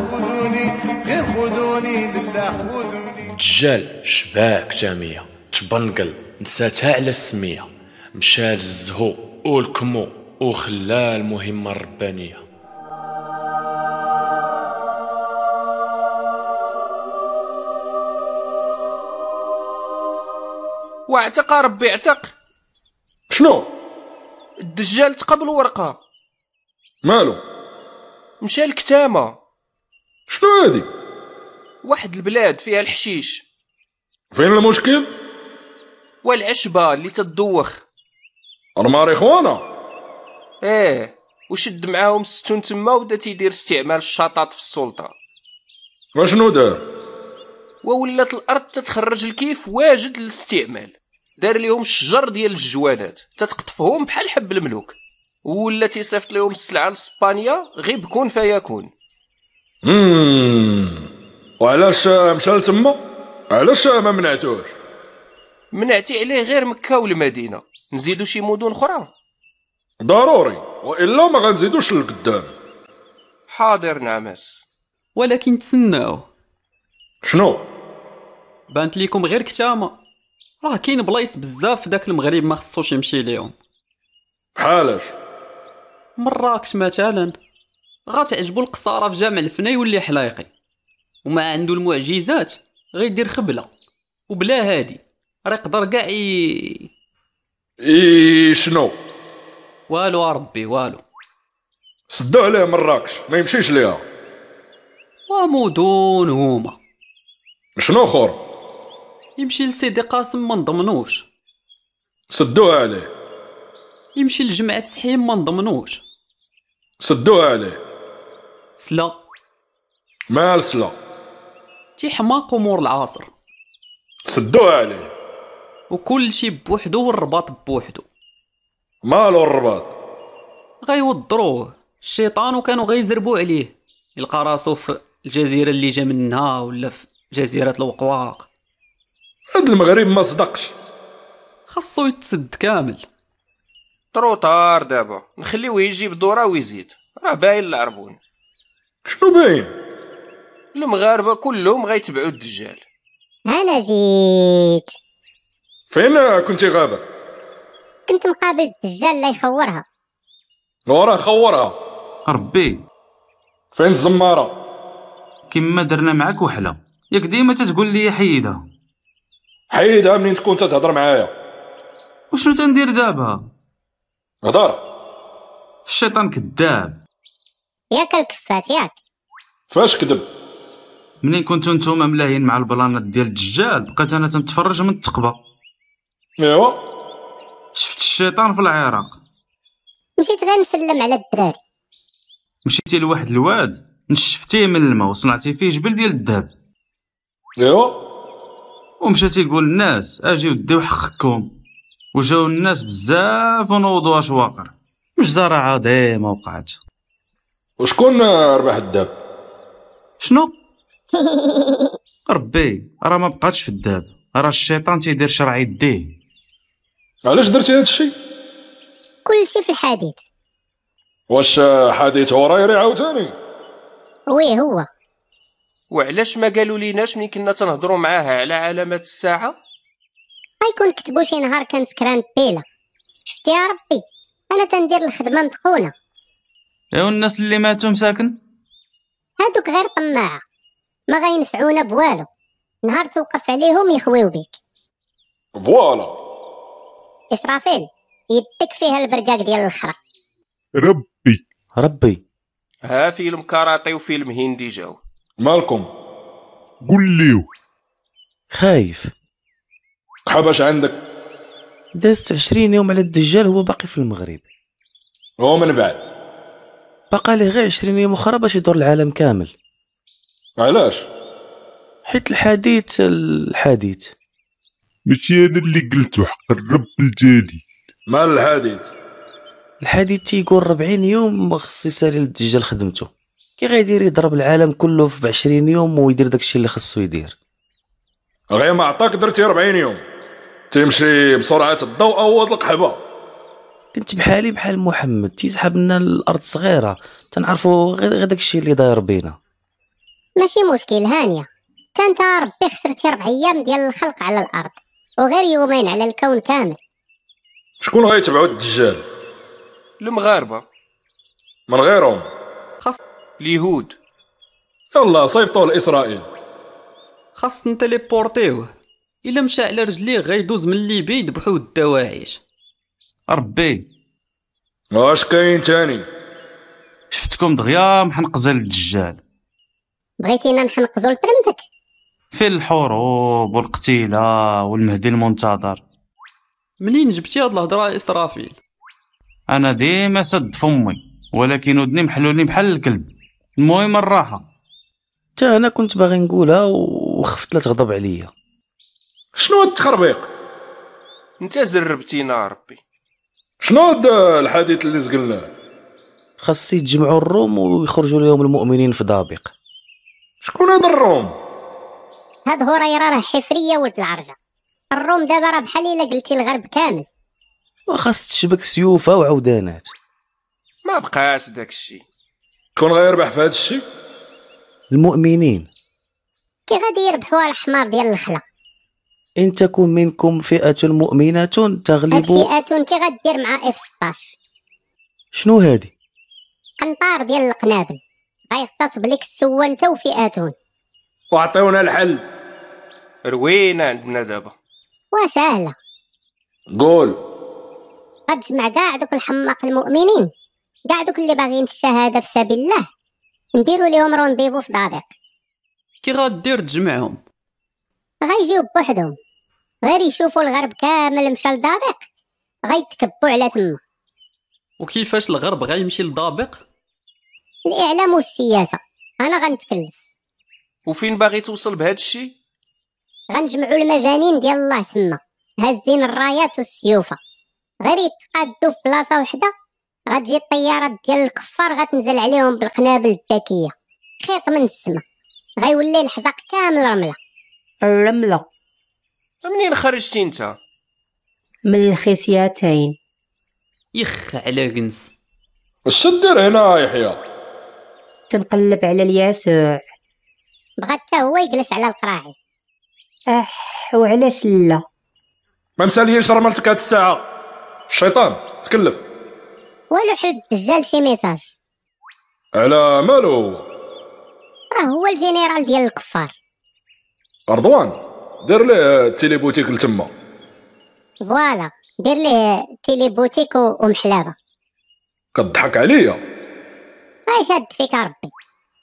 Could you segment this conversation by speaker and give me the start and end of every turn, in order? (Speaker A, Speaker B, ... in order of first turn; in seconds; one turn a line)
Speaker A: 3.3-12.4
Speaker B: 21.1-22.3
Speaker C: 23.3-23.7
Speaker B: 24.6-26.0
Speaker C: 27.0-27.4
Speaker B: 28.4-29.4
Speaker C: 30.3-30.9
Speaker B: 31.8-33.5
Speaker C: 34.3-35.1
Speaker B: 36.2-37.9
Speaker C: 38.8-39.6
Speaker B: 40.6-45.1
Speaker C: 46.1-46.8
Speaker B: 47.8-58.9
Speaker C: 59.8-61.0
Speaker C: 61.6-63.0
Speaker C: 63.5-64.7
Speaker B: 65.7-69.1
Speaker C: 70.0-72.5
Speaker B: 73.5-74.7
Speaker D: 75.2-76.3
Speaker C: 77.2-77.7
Speaker D: 78.7-80.0
Speaker D: 80.6-83.5
Speaker C: 84.6-85.1
Speaker D: 86.2-87.4
Speaker D: 88.1-90.5
Speaker D: 91.2-93.7
Speaker D: 94.3-96.9
Speaker C: 97.8-99.0
Speaker D: 99.9-101.0
Speaker C: 102.1-104.0
Speaker D: 105.3-106.8
Speaker C: 107.8-108.4
Speaker D: 109.4-111.3
Speaker C: 112.3-113.1
Speaker D: 114.2-116.0
Speaker C: 117.0-117.8
Speaker D: 118.8-119.2
Speaker C: 120.3-121.0
Speaker D: 122.0-123.3
Speaker C: 124.3-125.1
Speaker D: 125.9-128.1
Speaker C: 129.0-129.9
Speaker D: 130.8-138.5
Speaker C: 139.5-140.7
Speaker D: 141.7-143.1
Speaker B: 144.1-148.2
Speaker C: 149.1-149.7
Speaker B: 150.7-152.8
Speaker E: 153.5-154.9
Speaker C: 155.9-157.1
Speaker E: 158.1-159.8
Speaker C: 160.9-161.8
Speaker F: 162.3-162.8
Speaker C: 163.7-164.6
Speaker F: 165.5-168.6
Speaker C: 169.7-171.3
Speaker F: 172.3-173.4
Speaker C: 174.4-174.8
Speaker F: 175.9-177.0
Speaker E: 177.9-178.9
Speaker C: 179.7-180.3
Speaker F: 181.2-185.4
Speaker C: 186.4-186.8
Speaker F: 187.8-189.2
Speaker E: 190.2-191.5
Speaker F: 192.7-196.5
Speaker C: 197.6-198.0
Speaker F: 199.0-201.5
Speaker F: 202.1-206.8
Speaker C: 207.8-209.1
Speaker F: 210.2-210.6
Speaker E: 211.2-211.9
Speaker F: 212.3-216.1
Speaker C: 217.2-218.1
Speaker E: 219.3-220.2
Speaker C: 221.3-223.3
Speaker E: 224.3-224.9
Speaker B: 225.9-229.6
Speaker E: 230.6-232.6
Speaker E: 233.3-234.0
Speaker E: 234.5-235.9
Speaker F: 236.9-238.4
Speaker E: 239.4-240.4
Speaker E: 241.1-242.3
Speaker E: 242.9-244.5
Speaker C: 245.6-246.2
Speaker E: 247.3-249.9
Speaker G: 250.8-251.4
Speaker H: 251.8-252.2
Speaker B: 252.8-255.0
Speaker C: 255.4-255.9
Speaker G: 256.9-257.5
Speaker H: 258.5-259.1
Speaker C: 260.3-261.0
Speaker H: 261.9-264.4
Speaker C: 265.4-266.0
Speaker H: 267.1-269.5
Speaker C: 270.6-271.1
Speaker H: 272.1-274.1
Speaker G: 275.1-277.6
Speaker C: 278.1-278.9
Speaker H: 279.8-287.4
Speaker C: 288.5-290.0
Speaker C: 290.7-293.0
Speaker H: 293.9-299.4
Speaker E: 300.4-301.5
Speaker E: 302.0-306.8
Speaker C: 307.8-309.0
Speaker B: 310.0-310.6
Speaker C: 311.7-312.3
Speaker B: 313.4-314.0
Speaker C: 314.9-316.2
Speaker D: 317.4-318.7
Speaker D: 319.2-322.4
Speaker F: 323.3-323.9
Speaker C: 324.9-326.1
Speaker F: 327.1-329.2
Speaker E: 330.2-331.6
Speaker F: 332.3-335.8
Speaker D: 336.8-338.6
Speaker F: 339.5-344.5
Speaker H: 345.4-348.3
Speaker C: 349.4-350.3
Speaker B: 351.4-352.8
Speaker C: 353.6-355.5
Speaker H: 356.4-359.5
Speaker C: 360.4-361.4
Speaker E: 362.5-364.3
Speaker E: 364.9-367.1
Speaker H: 367.9-369.9
Speaker B: 370.8-372.1
Speaker C: 372.8-373.8
Speaker H: 374.9-375.7
Speaker E: 376.7-378.4
Speaker H: 379.4-382.5
Speaker E: 382.1-384.4
Speaker H: 385.3-385.9
Speaker E: 386.8-388.0
Speaker E: 388.5-390.5
Speaker C: 391.3-392.2
Speaker B: 393.2-394.6
Speaker E: 395.1-395.8
Speaker C: 396.7-397.2
Speaker E: 398.3-400.3
Speaker E: 400.9-402.8
Speaker E: 403.6-405.1
Speaker D: 406.0-407.2
Speaker E: 408.2-409.1
Speaker E: 409.9-412.0
Speaker E: 412.7-413.8
Speaker D: 414.8-416.6
Speaker E: 417.7-419.9
Speaker B: 420.9-422.4
Speaker E: 423.3-427.2
Speaker E: 427.9-429.5
Speaker E: 430.1-435.0
Speaker E: 435.6-437.2
Speaker I: 437.8-438.5
Speaker B: 439.4-440.6
Speaker I: 441.7-443.0
Speaker D: 443.9-445.1
Speaker C: 445.9-447.2
Speaker I: 448.3-449.8
Speaker E: 450.8-452.3
Speaker I: 453.3-454.8
Speaker C: 455.8-457.2
Speaker C: 457.9-459.0
Speaker E: 459.9-461.6
Speaker C: 462.5-463.6
Speaker E: 464.8-466.3
Speaker C: 467.5-470.1
Speaker E: 471.3-474.3
Speaker C: 475.4-476.2
Speaker E: 477.3-478.3